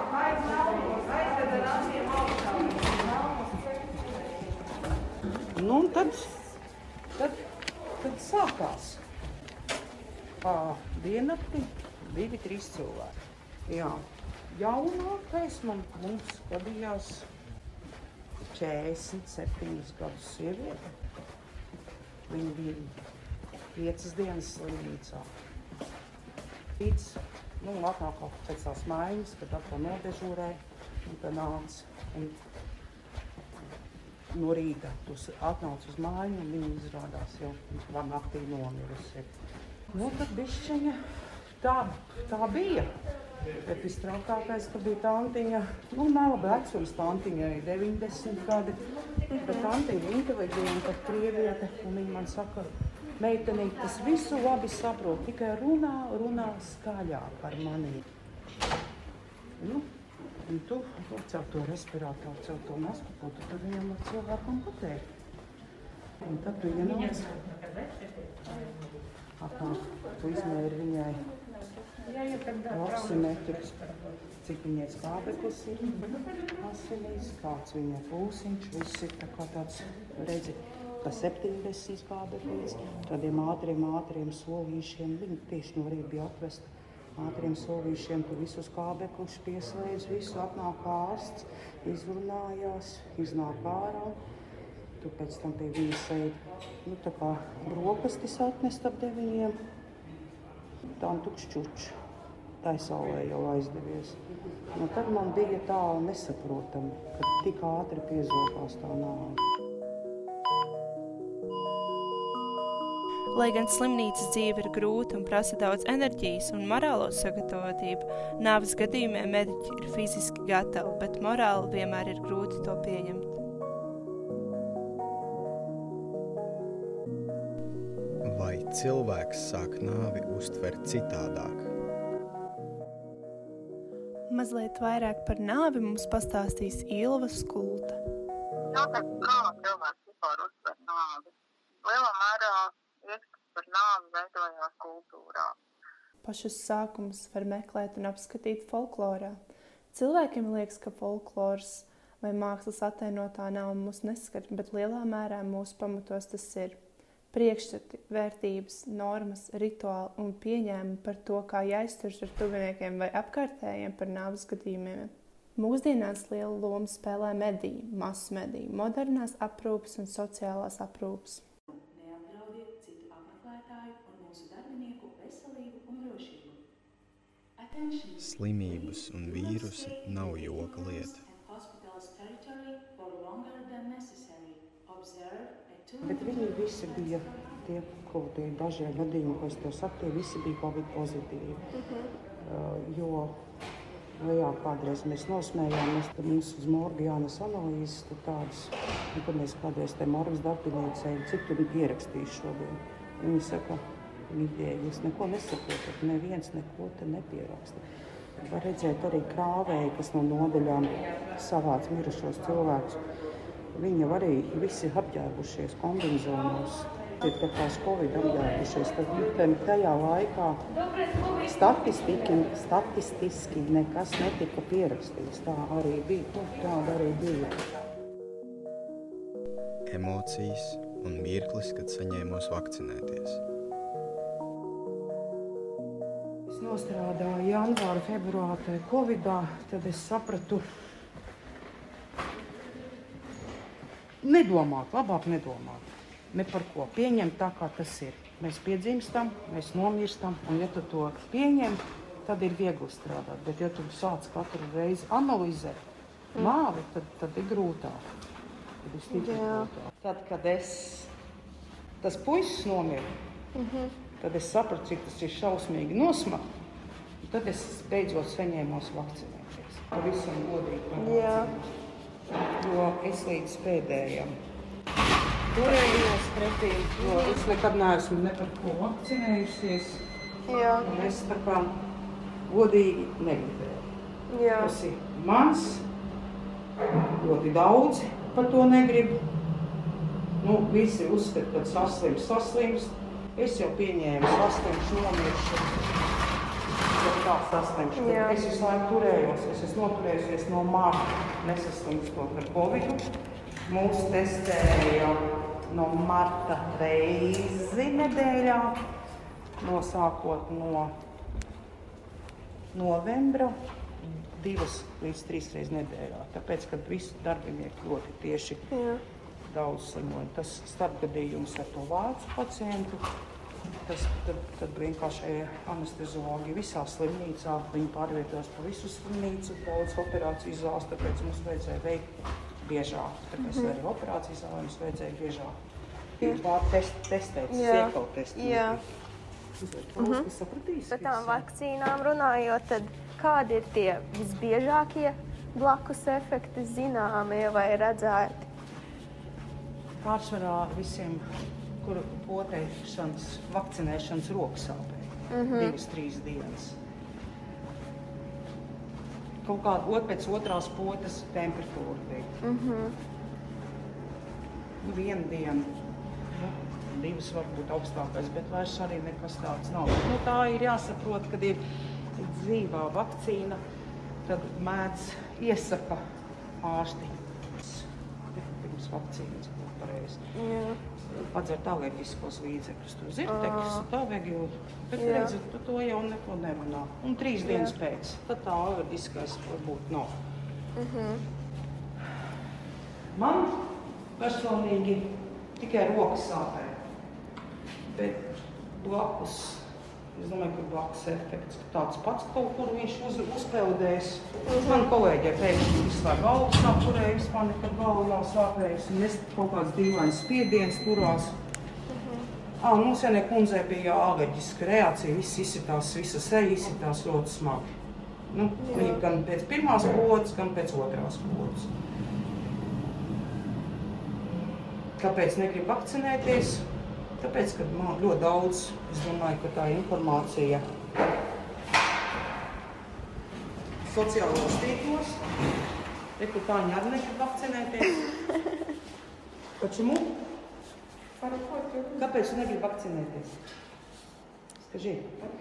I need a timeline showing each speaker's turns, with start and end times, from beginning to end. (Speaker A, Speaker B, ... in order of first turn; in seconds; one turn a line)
Speaker A: 5.5-6.3
Speaker A: 8.0-9.0
Speaker A: 10.4-17.3
Speaker A: 18.5-20.8
Speaker A: 22.3-22.9
Speaker A: 23.7-25.3
Speaker A: 26.8-32.4
Speaker A: 34.3-39.3
Speaker A: 39.9-41.0
Speaker A: 41.6-42.9
Speaker A: 43.6-48.8
Speaker A: 49.4-58.1
Speaker A: 59.6-59.8
Speaker A: 60.5-65.0
Speaker A: 66.2-67.4
Speaker A: 69.4-71.3
Speaker A: 72.6-73.8
Speaker A: 74.4-76.0
Speaker A: 76.6-94.2
Speaker A: 95.0-99.5
Speaker A: 100.9-101.9
Speaker A: 102.6-104.2
Speaker A: 104.7-109.4
Speaker B: 113.3-123.2
Speaker C: 128.2-131.7
Speaker B: 134.3-138.0
Speaker D: 138.7-141.3
Speaker D: 141.8-145.5
Speaker B: 146.2-149.4
Speaker B: 149.9-156.8
Speaker B: 157.3-171.4
Speaker E: 172.0-176.5
Speaker E: 177.7-178.0
Speaker C: 178.2-181.3
Speaker E: 181.3-185.8
Speaker A: 186.0-191.6
Speaker A: 192.4-193.3
Speaker A: 194.1-207.8
Speaker A: 208.4-213.0
Speaker A: 213.7-220.6
Speaker A: 221.4-227.6
Speaker C: 229.9-233.4
Speaker A: 236.5-240.6
Speaker A: 244.2-255.8
Speaker A: 256.4-258.0
Speaker A: 258.8-261.1
Speaker F: 259.2-259.7
Speaker A: 262.0-263.1
Speaker F: 263.6-263.9
Speaker A: 264.1-266.4
Speaker A: 267.2-271.7
Speaker F: 271.0-271.4
Speaker A: 272.6-274.3
Speaker A: 275.5-280.0
Speaker F: 280.5-280.9
Speaker A: 280.8-281.7
Speaker A: 282.5-283.9
Speaker F: 284.3-284.6
Speaker A: 284.5-285.8
Speaker A: 287.2-289.2
Speaker A: 290.4-295.9
Speaker A: 296.7-303.0
Speaker F: 298.1-298.3
Speaker A: 303.6-308.7
Speaker A: 309.6-310.9
Speaker A: 312.7-313.5
Speaker A: 314.1-318.6
Speaker F: 318.7-319.0
Speaker A: 319.4-323.0
Speaker A: 323.9-332.1
Speaker A: 332.6-335.6
Speaker F: 333.4-333.7
Speaker A: 336.2-338.8
Speaker F: 337.5-338.7
Speaker A: 339.6-341.5
Speaker F: 340.0-340.2
Speaker F: 340.9-348.5
Speaker A: 350.0-351.2
Speaker A: 351.8-356.8
Speaker F: 355.3-355.7
Speaker A: 359.4-362.3
Speaker F: 362.4-362.9
Speaker A: 364.8-365.7
Speaker A: 366.3-371.6
Speaker A: 372.2-373.6
Speaker A: 374.2-376.0
Speaker A: 376.6-380.2
Speaker F: 380.4-380.8
Speaker A: 381.1-390.1
Speaker F: 383.3-383.8
Speaker F: 390.8-391.2
Speaker A: 393.1-393.6
Speaker A: 394.2-396.8
Speaker A: 397.8-399.6
Speaker A: 400.1-411.3
Speaker F: 404.5-404.9
Speaker F: 411.9-412.3
Speaker A: 412.6-417.7
Speaker A: 418.3-421.7
Speaker F: 418.6-419.0
Speaker A: 425.0-426.6
Speaker A: 427.2-430.6
Speaker A: 433.9-435.2
Speaker A: 436.2-438.1
Speaker A: 439.6-440.2
Speaker F: 441.2-441.7
Speaker A: 441.9-443.4
Speaker A: 444.6-445.3